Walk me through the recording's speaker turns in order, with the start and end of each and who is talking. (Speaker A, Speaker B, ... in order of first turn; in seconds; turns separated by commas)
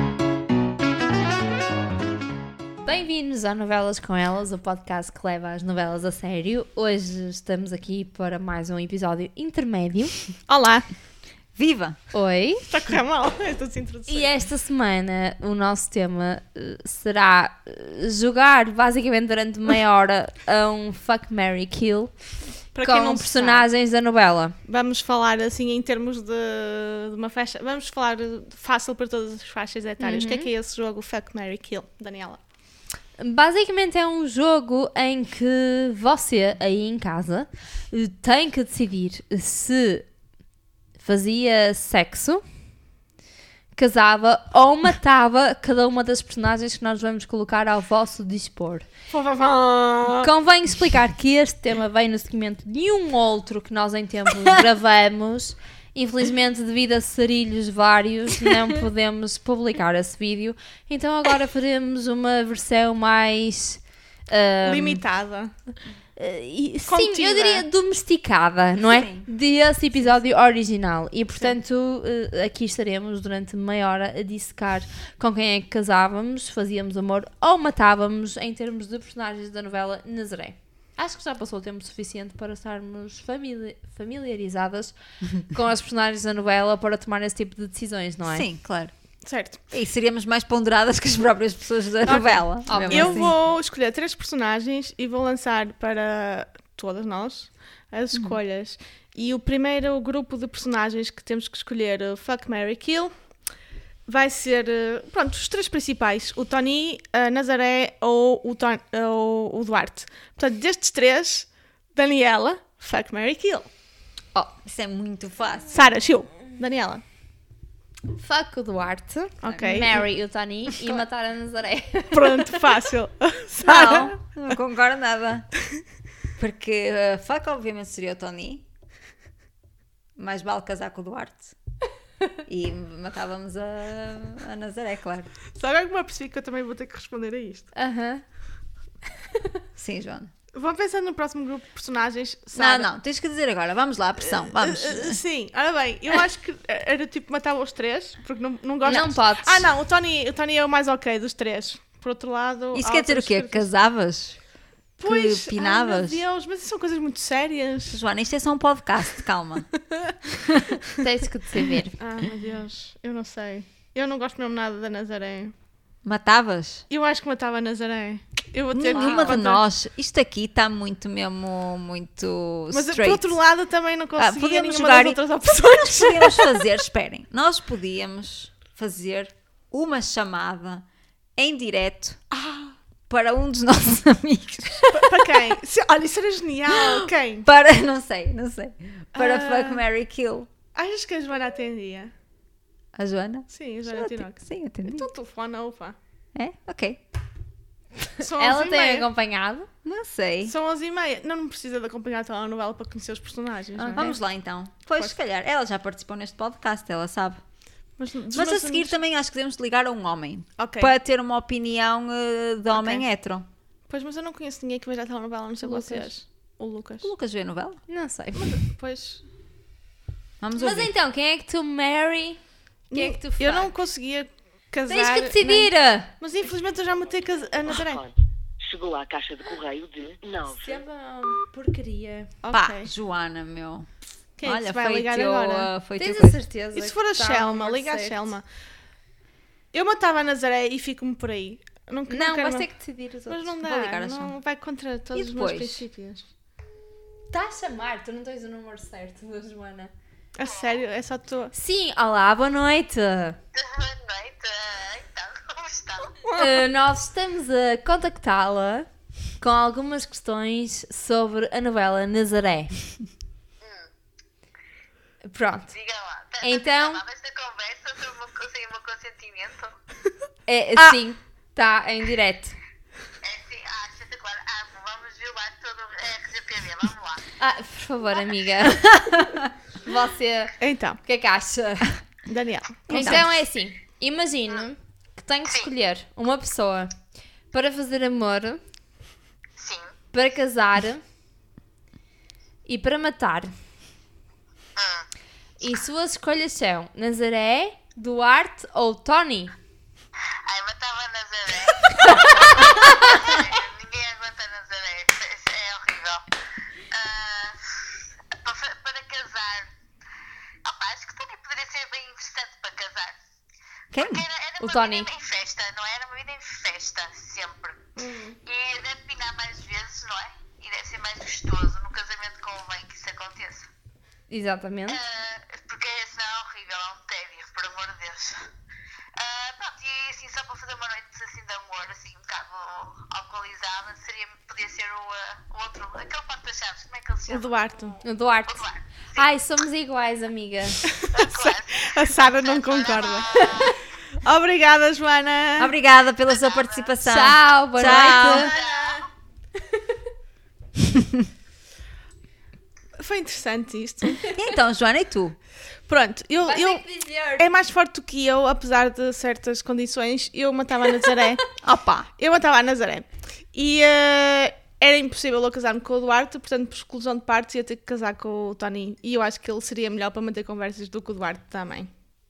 Speaker A: 2.9-10.2, Speaker B: 10.5-10.9, Speaker C: 11.6-12.0, Speaker A: 12.1-12.7, Speaker B: 12.7-14.3, Speaker A: 14.1-22.1, Speaker B: 22.7-23.7, Speaker A: 22.8-24.6, Speaker B: 24.7-32.4, Speaker A: 30.0-30.5, Speaker A: 33.2-40.1, Speaker A: 41.0-42.4, Speaker A: 43.7-48.9, Speaker B: 49.1-50.3, Speaker A: 50.2-65.0, Speaker B: 64.6-65.5, Speaker A: 66.2-88.5, Speaker B: 66.9-67.7, Speaker C: 68.8-69.3, Speaker C: 88.3-88.9, Speaker B: 89.2-89.6, Speaker C: 89.7-93.3, Speaker B: 92.0-103.1, Speaker A: 92.7-93.3, Speaker C: 98.1-98.4, Speaker B: 104.1-113.7, Speaker C: 114.6-115.8, Speaker B: 115.7-117.0, Speaker A: 118.1-122.7, Speaker B: 119.4-120.0, Speaker B: 122.1-124.3, Speaker C: 123.6-125.5, Speaker C: 126.4-128.7, Speaker C: 130.2-131.6, Speaker C: 132.5-135.3, Speaker B: 135.6-137.7, Speaker A: 137.8-138.2, Speaker C: 139.8-140.3, Speaker B: 140.5-142.9, Speaker C: 142.6-145.2, Speaker B: 144.3-153.7, Speaker A: 148.8-149.7, Speaker C: 152.7-154.4, Speaker C: 155.0-156.2, Speaker B: 155.0-158.0, Speaker C: 157.9-159.7, Speaker C: 160.4-160.8, Speaker A: 161.0-162.0, Speaker B: 162.0-165.5, Speaker C: 166.0-166.8, Speaker B: 166.9-169.6, Speaker C: 168.7-173.4, Speaker A: 168.9-169.5, Speaker B: 172.7-176.6, Speaker C: 174.2-182.2, Speaker B: 182.3-182.8, Speaker C: 183.1-185.4, Speaker B: 184.9-187.5, Speaker C: 186.7-190.5, Speaker B: 189.2-189.8, Speaker B: 190.7-192.1, Speaker C: 193.0-195.1, Speaker B: 193.5-196.0, Speaker C: 196.3-197.0, Speaker A: 198.2-199.7, Speaker B: 198.2-199.1, Speaker C: 199.8-200.6, Speaker B: 200.4-204.2, Speaker A: 203.8-204.1, Speaker C: 203.9-207.4, Speaker B: 208.0-208.9, Speaker C: 208.3-213.5, Speaker B: 210.6-210.9, Speaker B: 212.7-213.0, Speaker B: 213.9-217.1, Speaker A: 215.6-216.1, Speaker C: 217.0-217.8, Speaker A: 217.9-218.6, Speaker B: 218.3-219.2, Speaker C: 220.4-220.9, Speaker A: 220.6-222.4, Speaker A: 222.9-223.7, Speaker B: 222.9-228.0, Speaker A: 224.9-226.1, Speaker D: 227.8-230.8, Speaker A: 230.6-232.3, Speaker B: 232.4-232.9, Speaker C: 232.5-233.9, Speaker B: 234.4-235.7, Speaker C: 234.4-236.4, Speaker A: 236.0-238.3, Speaker B: 236.7-238.4, Speaker B: 239.7-242.7, Speaker A: 242.1-243.6, Speaker B: 243.3-246.3, Speaker C: 243.6-244.4, Speaker C: 245.1-245.8, Speaker A: 247.3-249.9, Speaker B: 250.4-251.5, Speaker E: 250.4-250.8, Speaker A: 251.5-253.4, Speaker E: 253.6-256.2, Speaker A: 256.3-262.8, Speaker E: 263.6-263.9, Speaker A: 265.2-265.7, Speaker E: 265.7-269.7, Speaker A: 266.4-267.0, Speaker A: 270.5-272.6, Speaker E: 273.2-277.2, Speaker A: 277.4-278.9, Speaker A: 279.8-281.9, Speaker B: 280.6-281.0, Speaker B: 282.3-283.2, Speaker C: 282.9-283.3, Speaker A: 282.9-286.9, Speaker A: 287.5-288.6, Speaker E: 289.6-289.9, Speaker A: 290.1-291.0, Speaker A: 292.7-293.5, Speaker E: 294.8-295.1, Speaker A: 295.6-299.5, Speaker E: 300.4-306.2, Speaker A: 302.0-303.3, Speaker E: 306.9-307.8, Speaker E: 308.4-309.7, Speaker E: 310.6-313.2, Speaker C: 313.9-314.2, Speaker E: 313.9-317.9, Speaker A: 314.6-315.1, Speaker B: 318.0-318.4, Speaker E: 318.4-323.7, Speaker A: 324.3-325.0, Speaker E: 324.9-328.4, Speaker E: 329.2-339.3, Speaker B: 337.3-338.0, Speaker A: 338.0-340.8, Speaker B: 341.1-345.7, Speaker E: 341.1-343.8, Speaker A: 343.4-343.8, Speaker C: 345.6-348.5, Speaker E: 346.3-346.9, Speaker A: 347.0-348.5, Speaker B: 347.9-349.0, Speaker E: 348.6-349.1, Speaker B: 353.0-354.3, Speaker C: 354.4-355.4, Speaker B: 355.9-356.8, Speaker A: 356.4-357.5, Speaker B: 357.4-361.5, Speaker C: 361.6-362.1, Speaker B: 362.2-371.9